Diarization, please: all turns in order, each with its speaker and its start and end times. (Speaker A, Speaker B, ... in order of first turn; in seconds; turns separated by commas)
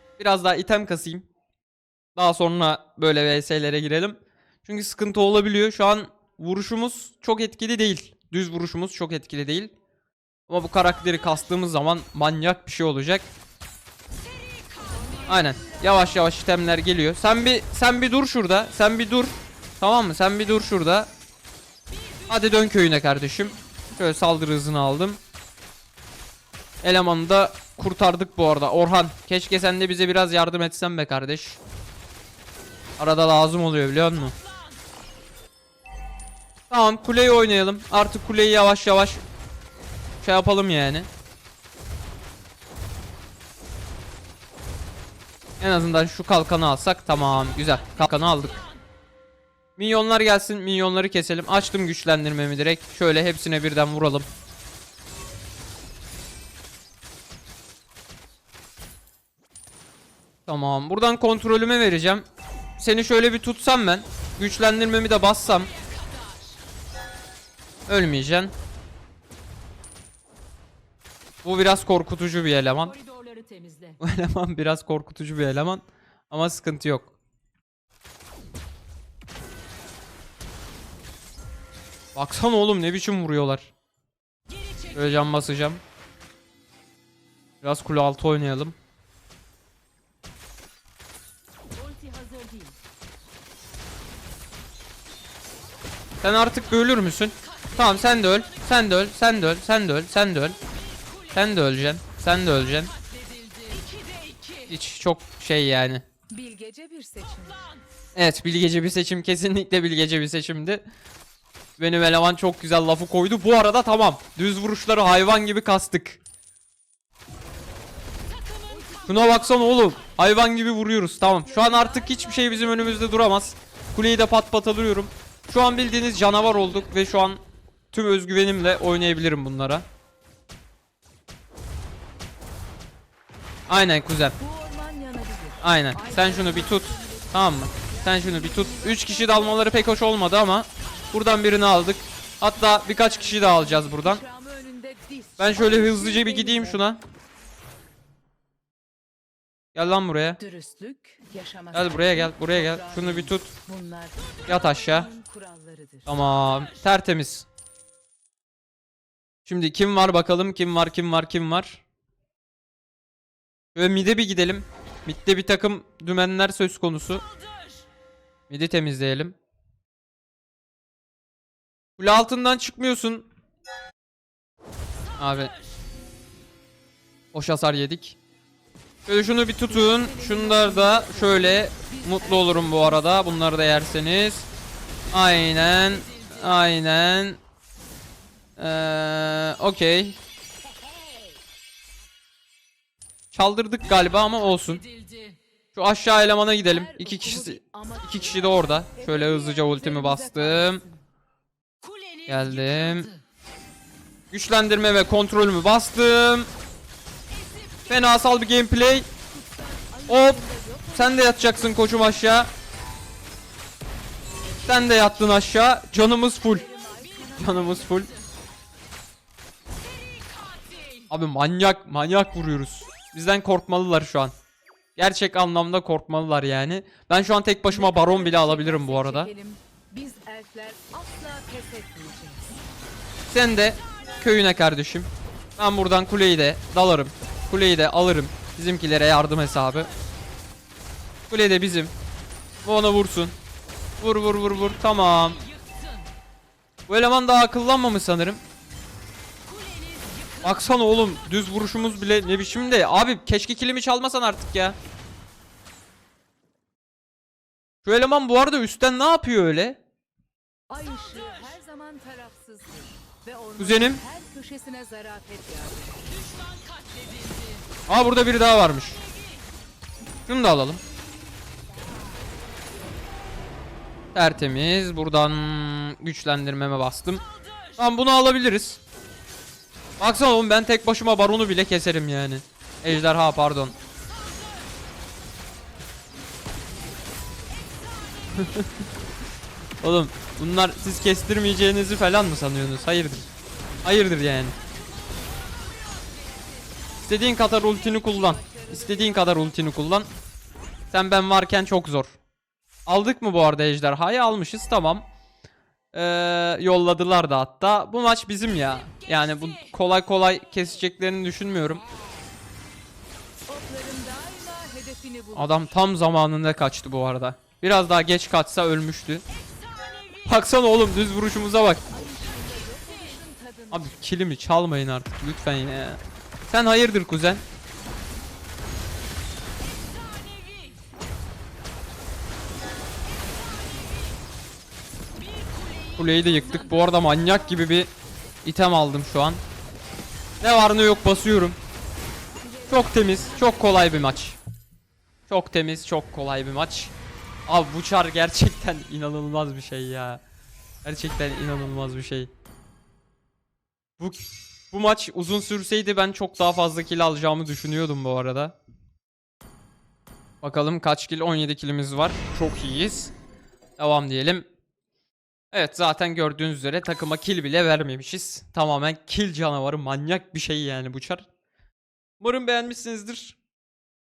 Speaker A: 0.2-1.2, Speaker A: 2.1-9.7, Speaker A: 10.5-13.3, Speaker B: 14.8-16.3, Speaker A: 15.2-21.1, Speaker A: 22.3-25.2, Speaker A: 26.8-31.6, Speaker A: 33.0-34.4, Speaker A: 36.7-39.2, Speaker A: 40.2-41.1, Speaker A: 45.6-48.6, Speaker A: 49.8-54.3, Speaker A: 60.5-62.2, Speaker A: 62.8-65.7, Speaker C: 65.8-66.3, Speaker A: 67.9-68.5, Speaker A: 71.4-72.9, Speaker B: 73.0-74.0, Speaker A: 74.0-77.1, Speaker A: 82.1-83.7, Speaker A: 84.9-85.8, Speaker A: 87.6-88.7, Speaker B: 91.7-92.8, Speaker A: 96.2-100.6, Speaker A: 101.3-102.9, Speaker C: 103.1-104.6, Speaker A: 104.7-106.0, Speaker B: 106.3-107.7, Speaker A: 108.1-110.8, Speaker A: 111.8-116.2, Speaker B: 118.7-119.5, Speaker A: 119.0-127.4, Speaker B: 121.3-123.3, Speaker A: 127.9-129.8, Speaker A: 133.7-134.3, Speaker B: 134.4-139.8, Speaker A: 135.6-144.2, Speaker B: 142.7-146.8, Speaker A: 145.4-147.0, Speaker A: 149.7-150.4, Speaker B: 150.4-156.1, Speaker A: 151.7-153.5, Speaker A: 154.5-155.1, Speaker A: 156.1-157.5, Speaker A: 159.4-161.8, Speaker A: 163.7-167.2, Speaker A: 168.5-169.3, Speaker A: 172.0-173.3, Speaker A: 175.2-175.5, Speaker A: 177.3-178.2, Speaker A: 179.1-184.5, Speaker B: 179.7-183.8, Speaker A: 185.1-187.4, Speaker A: 188.6-190.2, Speaker A: 193.3-194.8, Speaker C: 195.0-195.3, Speaker A: 195.7-200.8, Speaker B: 196.7-201.0, Speaker C: 201.8-202.2, Speaker A: 202.2-203.1, Speaker A: 204.3-206.5, Speaker A: 207.9-209.1, Speaker B: 209.3-212.3, Speaker A: 210.1-210.4, Speaker A: 210.9-212.5, Speaker A: 214.6-216.7, Speaker B: 216.4-218.1, Speaker A: 217.3-218.1, Speaker C: 220.0-220.8, Speaker A: 221.1-224.3, Speaker A: 224.9-229.3, Speaker B: 227.7-232.5, Speaker A: 233.3-239.9, Speaker A: 241.3-241.9, Speaker A: 242.6-243.3, Speaker A: 244.0-245.4, Speaker C: 245.4-246.0, Speaker A: 246.9-248.4, Speaker C: 249.5-250.4, Speaker A: 250.4-254.8, Speaker A: 257.8-259.8, Speaker B: 260.7-266.1, Speaker A: 263.6-264.0, Speaker C: 266.2-267.6, Speaker A: 267.9-269.0, Speaker A: 270.3-270.8, Speaker A: 274.1-277.2, Speaker A: 277.8-278.8, Speaker A: 280.0-283.8, Speaker A: 288.3-288.8, Speaker A: 289.8-293.3, Speaker A: 293.8-294.6, Speaker C: 294.9-296.3, Speaker A: 297.0-300.1, Speaker B: 297.5-299.9, Speaker A: 300.9-302.1, Speaker A: 302.9-305.1, Speaker A: 305.9-311.8, Speaker B: 313.5-315.7, Speaker A: 315.3-319.2, Speaker A: 320.2-321.8, Speaker B: 321.9-323.9, Speaker A: 323.7-327.4, Speaker C: 330.0-330.7, Speaker C: 335.2-335.9, Speaker A: 335.9-337.9, Speaker B: 336.2-337.6, Speaker A: 338.4-339.4, Speaker A: 340.4-341.6, Speaker B: 342.4-344.2, Speaker A: 342.7-344.4, Speaker A: 345.3-346.9, Speaker A: 347.5-350.2, Speaker A: 350.8-352.3, Speaker A: 354.0-358.6, Speaker A: 360.4-363.1, Speaker A: 363.8-364.4, Speaker A: 365.5-371.2, Speaker A: 372.2-373.4